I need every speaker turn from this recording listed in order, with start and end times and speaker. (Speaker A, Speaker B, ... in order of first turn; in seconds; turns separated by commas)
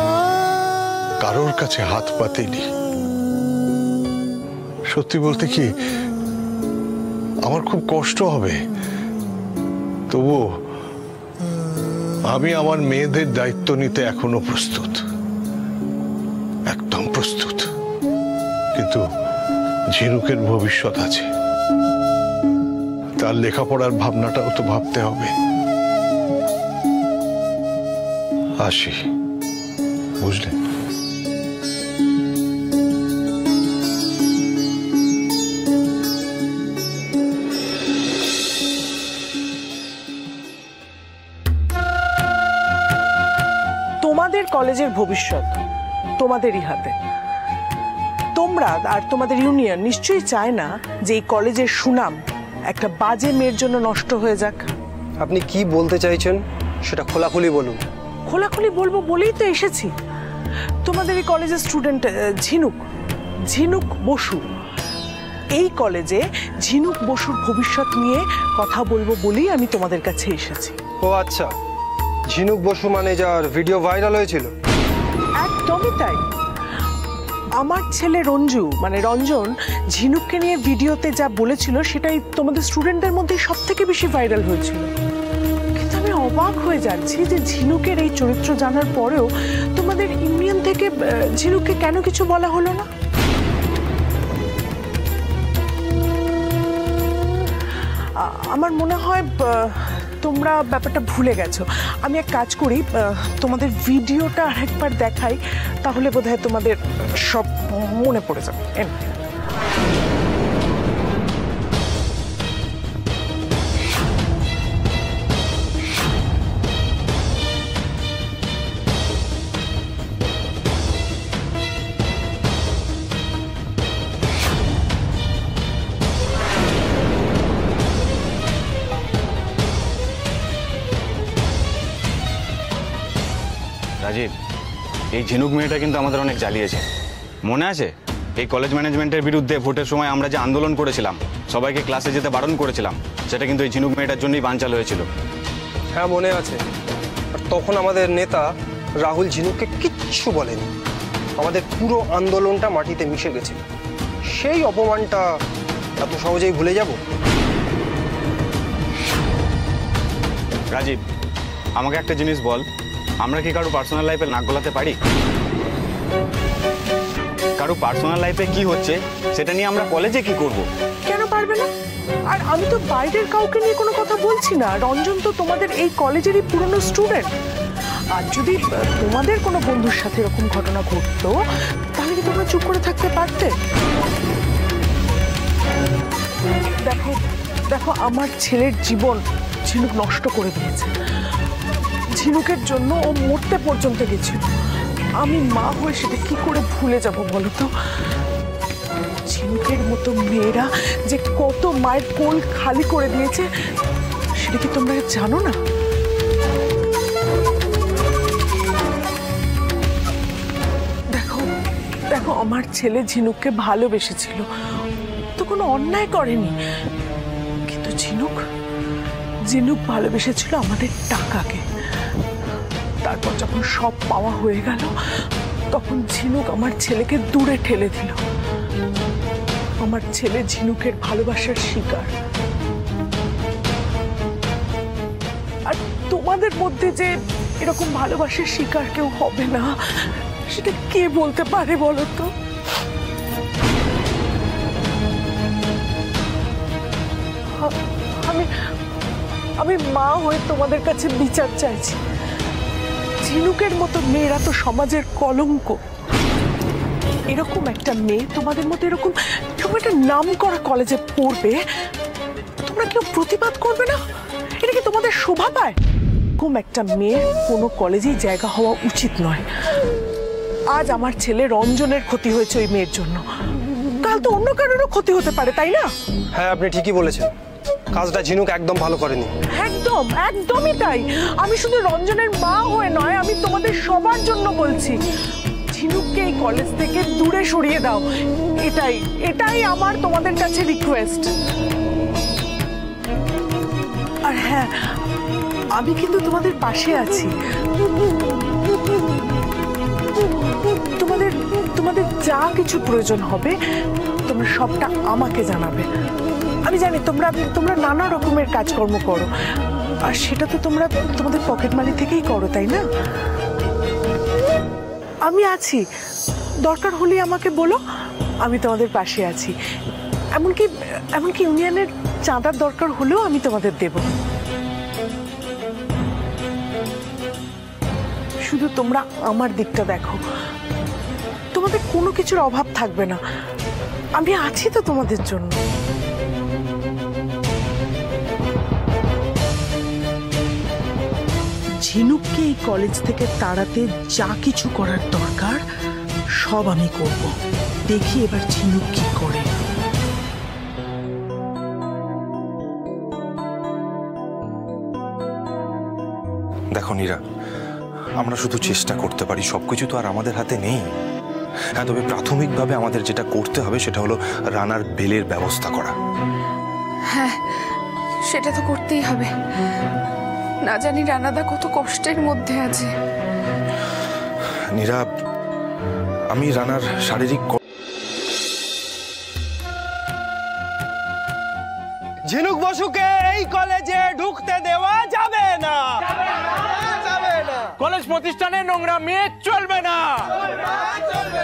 Speaker A: 1.2-2.6, Speaker A: 4.9-5.7, Speaker A: 7.5-8.5, Speaker A: 10.1-10.4, Speaker A: 12.3-15.0, Speaker A: 16.7-17.7, Speaker A: 18.8-19.0, Speaker A: 19.9-21.3, Speaker A: 23.2-25.3, Speaker A: 28.6-29.0, Speaker A: 30.2-30.5, Speaker B: 44.0-45.5, Speaker B: 46.2-46.9, Speaker B: 48.4-52.2, Speaker B: 52.7-54.7, Speaker C: 55.2-57.8, Speaker B: 58.3-59.9, Speaker B: 60.8-62.8, Speaker B: 63.5-64.4, Speaker B: 65.5-70.8, Speaker C: 71.0-71.5, Speaker C: 72.3-74.5, Speaker B: 75.4-76.2, Speaker B: 77.6-84.9, Speaker B: 85.8-92.9, Speaker B: 98.2-109.0, Speaker D: 134.0-134.3, Speaker D: 135.2-136.8, Speaker D: 137.5-145.0, Speaker C: 145.9-146.6, Speaker C: 147.3-148.5, Speaker C: 149.0-150.7, Speaker C: 151.4-153.6, Speaker C: 154.3-155.3, Speaker C: 156.0-157.0, Speaker D: 161.8-162.6, Speaker D: 163.2-164.9, Speaker D: 167.6-170.7, Speaker B: 171.1-171.7, Speaker B: 172.3-177.3, Speaker B: 178.1-181.3, Speaker B: 181.9-183.5, Speaker B: 186.8-190.9, Speaker B: 192.2-194.4, Speaker B: 195.2-197.7, Speaker B: 199.3-203.4, Speaker B: 204.4-205.6, Speaker B: 211.1-211.5, Speaker B: 212.1-214.4, Speaker B: 215.4-216.5, Speaker B: 217.7-218.4, Speaker B: 219.5-221.6, Speaker B: 223.0-224.9, Speaker B: 225.7-228.2, Speaker B: 229.8-232.1, Speaker B: 235.7-239.7, Speaker B: 240.5-242.3, Speaker B: 249.6-252.0, Speaker B: 253.2-255.8, Speaker B: 257.3-261.6, Speaker B: 262.6-264.0, Speaker B: 264.6-265.8, Speaker B: 266.4-269.4, Speaker B: 270.7-273.2, Speaker B: 274.0-275.9, Speaker C: 276.3-277.3, Speaker C: 277.9-279.3, Speaker B: 279.5-285.0, Speaker B: 285.7-288.0, Speaker B: 288.6-291.3, Speaker B: 294.3-294.7, Speaker B: 295.8-297.3, Speaker B: 301.0-303.5, Speaker B: 304.3-305.9, Speaker B: 306.7-309.3, Speaker B: 310.1-312.8, Speaker B: 315.3-315.8, Speaker B: 316.6-317.8, Speaker B: 318.4-319.5, Speaker B: 320.4-324.1, Speaker B: 328.4-330.2, Speaker B: 331.5-333.2, Speaker B: 334.2-335.6, Speaker B: 341.8-345.6, Speaker B: 346.4-347.3, Speaker B: 347.9-349.5, Speaker E: 356.7-357.2, Speaker E: 358.2-360.8, Speaker E: 361.8-365.9, Speaker F: 368.3-369.3, Speaker F: 370.7-372.9, Speaker E: 374.7-375.0, Speaker E: 376.3-377.6, Speaker C: 382.3-386.0, Speaker G: 387.8-390.3